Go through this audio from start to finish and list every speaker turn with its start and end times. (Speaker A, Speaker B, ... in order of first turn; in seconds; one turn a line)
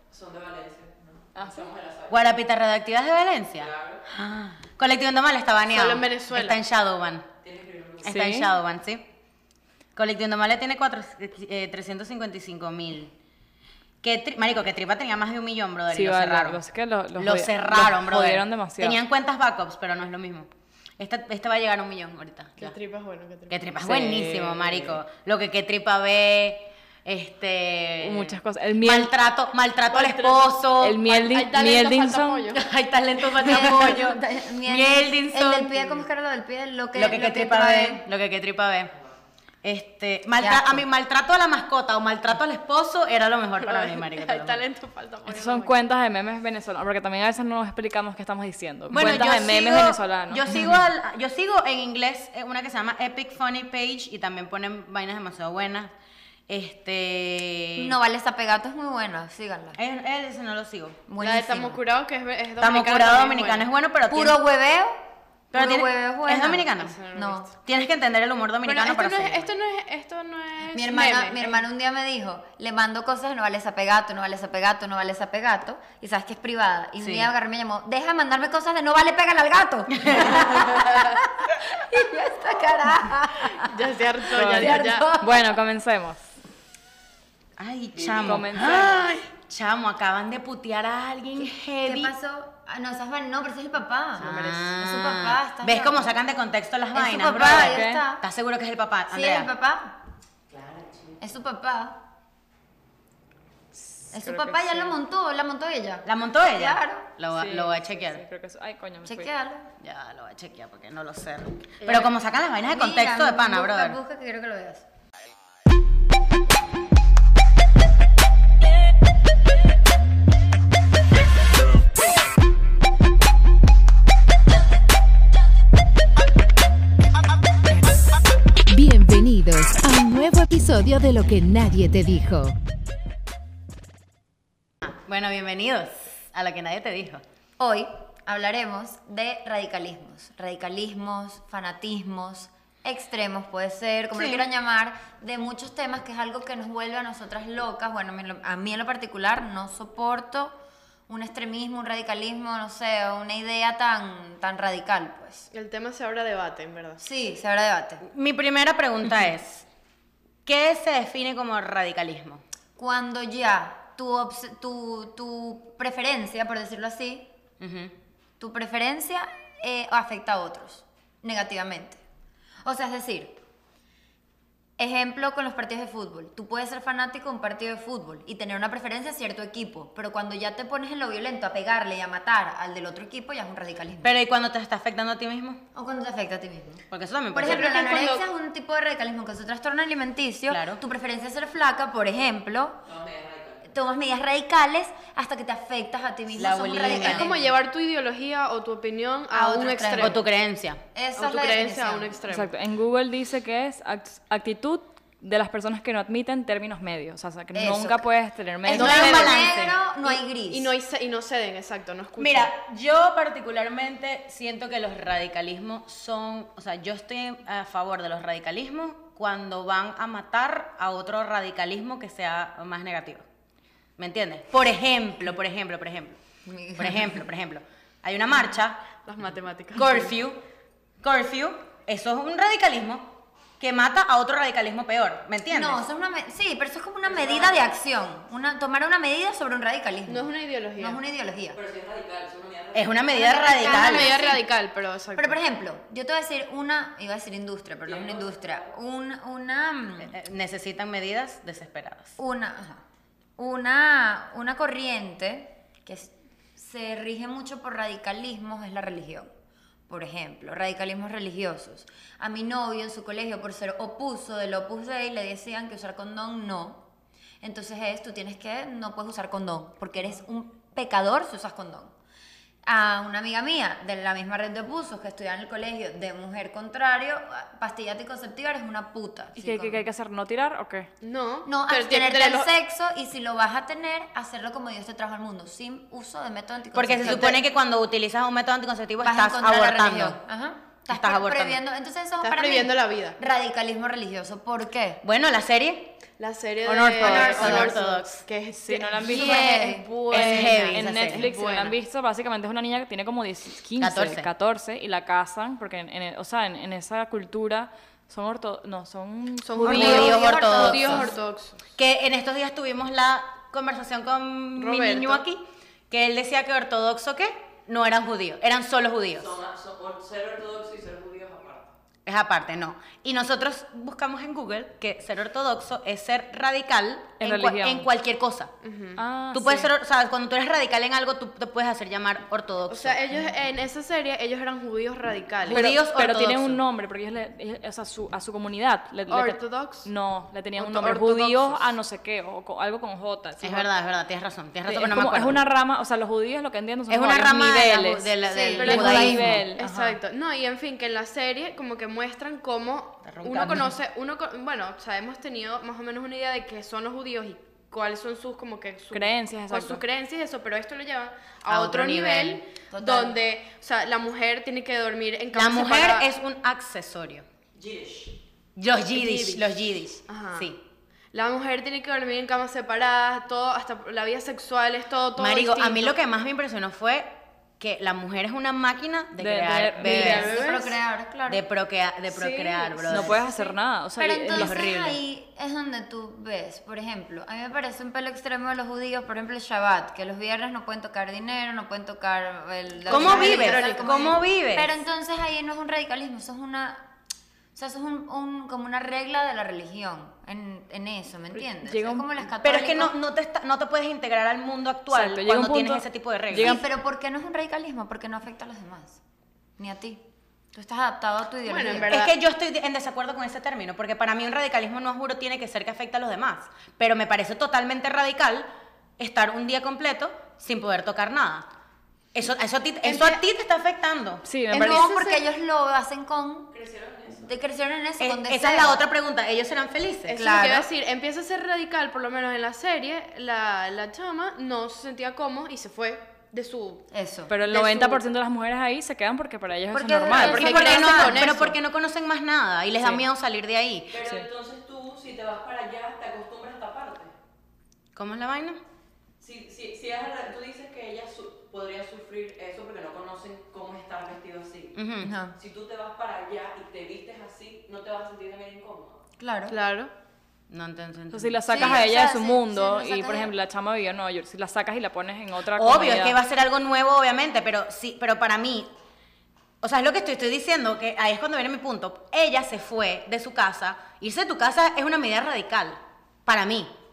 Speaker A: 0.1-2.3
Speaker B: 1.4-1.7
Speaker C: 2.1-7.3
Speaker A: 3.6-4.0
Speaker D: 5.7-6.6
Speaker A: 7.4-8.2
Speaker C: 8.0-9.1
Speaker B: 8.1-8.5
Speaker C: 9.9-13.1
Speaker C: 14.0-16.6
Speaker B: 15.9-19.0
Speaker C: 17.1-22.8
Speaker D: 22.6-23.7
Speaker C: 23.5-31.1
Speaker B: 23.8-24.5
Speaker B: 28.0-29.1
Speaker D: 29.9-32.6
Speaker B: 30.8-32.5
Speaker C: 32.5-36.0
Speaker E: 33.4-38.0
Speaker C: 36.9-38.9
Speaker C: 39.6-44.6
Speaker E: 40.4-40.8
Speaker D: 43.6-45.7
Speaker B: 45.2-50.4
Speaker C: 48.9-55.9
Speaker C: 56.5-58.0
Speaker E: 57.8-59.8
Speaker C: 59.8-61.0
Speaker E: 61.1-61.8
Speaker D: 61.2-63.7
Speaker C: 62.6-64.4
Speaker E: 64.1-65.0
Speaker C: 65.5-67.0
Speaker E: 65.5-67.5
Speaker D: 66.8-67.5
Speaker C: 67.6-69.5
Speaker D: 68.6-71.6
Speaker E: 70.7-83.7
Speaker C: 77.0-77.3
Speaker C: 80.0-80.8
Speaker D: 83.6-85.1
Speaker B: 84.3-86.2
Speaker E: 84.6-85.2
Speaker C: 87.6-92.1
Speaker B: 88.1-89.1
Speaker E: 91.8-96.1
Speaker C: 94.2-99.5
Speaker E: 96.9-98.2
Speaker B: 97.5-98.0
Speaker E: 99.1-99.9
Speaker A: 100.5-101.2
Speaker E: 101.2-102.0
Speaker B: 103.7-105.0
Speaker E: 104.1-107.1
Speaker C: 106.0-108.2
Speaker B: 107.3-109.3
Speaker E: 109.0-109.7
Speaker C: 109.8-114.0
Speaker D: 111.8-112.1
Speaker E: 112.7-114.8
Speaker F: 128.7-132.6
Speaker C: 134.8-137.2
Speaker E: 137.6-150.6
Speaker C: 144.1-144.5
Speaker E: 151.1-155.5
Speaker D: 155.5-157.0
Speaker E: 157.0-158.0
Speaker C: 158.0-159.7
Speaker C: 160.4-162.4
Speaker E: 162.8-167.3
Speaker C: 167.6-167.9
Speaker E: 168.4-172.0
Speaker E: 172.6-173.4
Speaker E: 174.8-184.1
Speaker C: 184.0-185.6
Speaker E: 185.7-192.8
Speaker C: 186.9-188.0
Speaker D: 187.4-188.3
Speaker C: 190.5-190.8
Speaker A: 192.8-193.6
Speaker E: 193.6-197.5
Speaker C: 196.3-197.3
Speaker D: 196.8-200.2
Speaker E: 199.3-200.2
Speaker C: 200.0-200.8
Speaker E: 200.9-202.2
Speaker D: 201.2-202.5
Speaker B: 202.3-209.4
Speaker E: 207.5-208.0
Speaker E: 208.6-210.7
Speaker C: 208.7-209.7
Speaker D: 208.7-209.5
Speaker D: 210.0-212.5
Speaker C: 212.2-223.3
Speaker C: 224.0-226.2
Speaker E: 226.4-227.2
Speaker C: 226.8-228.8
Speaker D: 229.0-230.1
Speaker C: 229.7-230.4
Speaker C: 231.0-235.8
Speaker E: 235.5-241.6
Speaker A: 237.2-237.7
Speaker D: 240.1-241.0
Speaker A: 241.5-243.1
Speaker C: 242.7-244.2
Speaker E: 243.1-244.4
Speaker D: 243.6-245.4
Speaker E: 245.2-250.2
Speaker A: 247.8-248.7
Speaker C: 250.0-252.2
Speaker E: 252.2-252.8
Speaker E: 253.4-259.3
Speaker E: 259.9-266.8
Speaker E: 267.4-271.9
Speaker E: 272.6-279.8
Speaker B: 279.4-280.9
Speaker D: 281.0-282.5
Speaker E: 281.4-287.4
Speaker C: 286.7-290.2
Speaker E: 289.0-295.0
Speaker C: 290.9-291.6
Speaker D: 292.2-293.2
Speaker C: 295.0-295.9
Speaker D: 296.2-301.8
Speaker C: 296.6-298.2
Speaker E: 297.0-297.7
Speaker B: 298.5-310.1
Speaker E: 299.0-299.9
Speaker C: 300.1-301.3
Speaker C: 303.8-304.3
Speaker D: 309.4-311.6
Speaker C: 309.6-311.1
Speaker E: 309.6-311.1
Speaker C: 311.8-319.4
Speaker D: 314.6-315.2
Speaker A: 319.1-321.7
Speaker C: 322.1-328.5
Speaker B: 327.2-327.9
Speaker D: 328.6-329.0
Speaker B: 329.0-329.7
Speaker C: 329.3-333.0
Speaker D: 332.7-335.6
Speaker C: 335.5-336.6
Speaker B: 335.5-343.7
Speaker D: 339.1-339.9
Speaker D: 340.5-341.7
Speaker C: 343.4-345.4
Speaker B: 344.7-350.0
Speaker C: 346.9-349.4
Speaker E: 348.3-349.3
Speaker D: 348.6-366.1
Speaker C: 353.0-353.7
Speaker B: 358.9-359.8
Speaker C: 361.5-362.4
Speaker E: 362.7-363.2
Speaker C: 365.3-367.2
Speaker A: 367.5-368.1
Speaker C: 368.6-370.6
Speaker D: 368.9-369.4
Speaker D: 370.1-370.5
Speaker D: 371.1-375.9
Speaker C: 375.2-380.3
Speaker B: 379.2-380.3
Speaker D: 379.8-380.8
Speaker E: 379.8-381.4
Speaker C: 381.3-383.2
Speaker D: 382.1-383.5
Speaker B: 382.8-384.7
Speaker E: 384.0-396.9
Speaker C: 384.3-385.0
Speaker C: 392.9-394.8
Speaker D: 392.9-393.6
Speaker E: 397.5-402.9
Speaker B: 401.5-402.1
Speaker C: 402.4-406.6
Speaker B: 404.9-406.6
Speaker E: 406.3-409.0
Speaker E: 409.6-410.0
Speaker E: 410.5-412.1
Speaker D: 411.4-412.1
Speaker C: 411.9-418.5
Speaker C: 419.0-421.5
Speaker C: 422.1-424.2
Speaker D: 422.8-423.2
Speaker B: 424.2-424.9
Speaker D: 424.5-425.2
Speaker E: 424.6-426.5
Speaker A: 426.5-427.3
Speaker E: 427.3-428.8
Speaker C: 428.0-430.2
Speaker D: 430.1-436.9
Speaker E: 430.2-430.7
Speaker E: 436.9-437.3
Speaker B: 437.3-440.6
Speaker D: 437.4-438.0
Speaker E: 439.7-441.4
Speaker D: 440.2-441.5
Speaker C: 440.2-444.0
Speaker A: 443.9-447.1
Speaker C: 447.9-448.6
Speaker A: 449.2-454.8
Speaker C: 454.7-455.1
Speaker E: 455.0-455.4
Speaker A: 455.4-459.0
Speaker E: 459.2-459.6
Speaker D: 459.5-459.9
Speaker C: 460.5-461.8
Speaker B: 461.1-466.2
Speaker E: 461.5-463.3
Speaker C: 465.5-468.7
Speaker C: 469.6-476.7